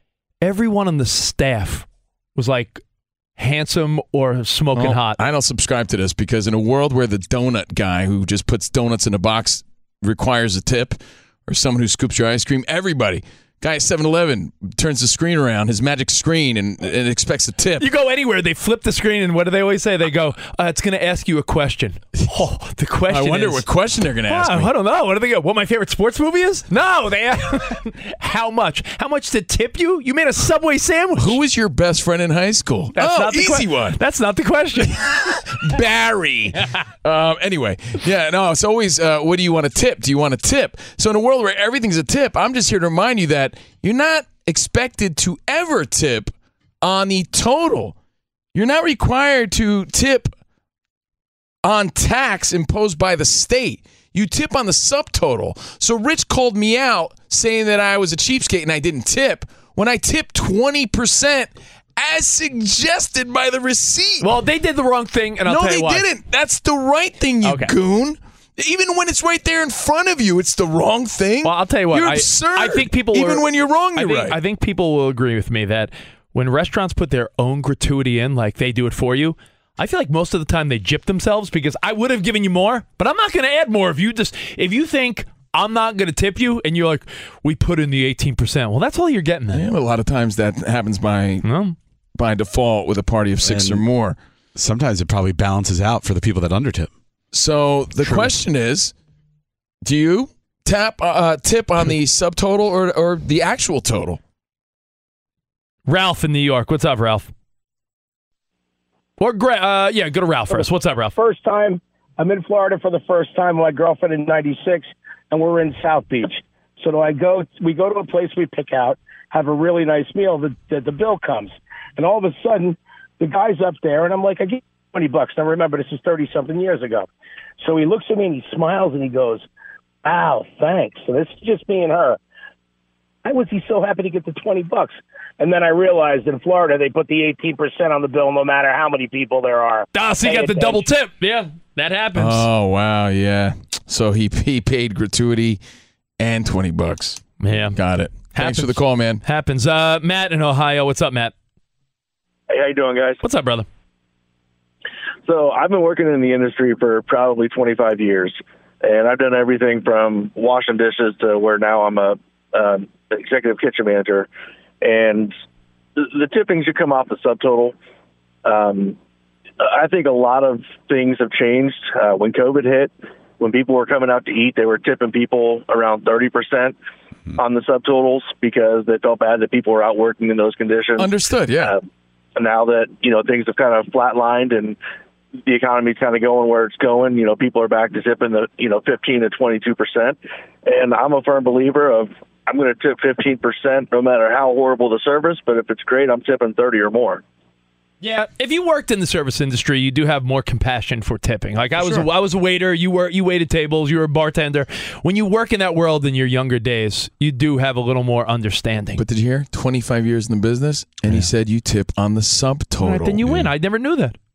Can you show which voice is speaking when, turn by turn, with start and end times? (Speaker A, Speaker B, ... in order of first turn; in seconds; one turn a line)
Speaker A: 0.4-2.8
Speaker A: 3.4-5.2
Speaker B: 4.8-17.9
Speaker A: 17.8-23.6
Speaker B: 23.1-24.7
Speaker A: 24.3-31.4
Speaker B: 31.2-34.0
Speaker A: 33.0-35.0
Speaker B: 34.8-47.9
Speaker B: 48.5-50.3
Speaker B: 51.6-64.3
Speaker A: 64.2-66.0
Speaker B: 65.5-74.4
Speaker A: 67.4-67.7
Speaker A: 71.4-89.7
Speaker B: 89.5-91.5
Speaker A: 91.4-91.8
Speaker B: 92.2-94.2
Speaker C: 93.4-93.8
Speaker C: 94.6-96.9
Speaker B: 97.3-98.9
Speaker B: 99.8-104.2
Speaker A: 105.9-107.3
Speaker A: 109.2-111.2
Speaker D: 110.5-127.1
Speaker D: 127.6-129.4
Speaker D: 130.1-132.2
Speaker D: 133.2-140.8
Speaker A: 139.9-142.5
Speaker B: 142.2-145.6
Speaker B: 146.2-149.2
Speaker A: 147.4-147.8
Speaker A: 148.3-151.3
Speaker E: 152.5-153.2
Speaker A: 153.2-153.7
Speaker E: 155.3-164.3
Speaker E: 164.8-165.4
Speaker E: 166.0-167.8
Speaker E: 168.4-169.0
Speaker E: 169.6-176.8
Speaker E: 177.4-181.1
Speaker B: 181.0-181.8
Speaker E: 182.4-184.8
Speaker E: 185.5-197.2
Speaker A: 198.0-209.0
Speaker B: 209.0-213.5
Speaker A: 212.8-214.2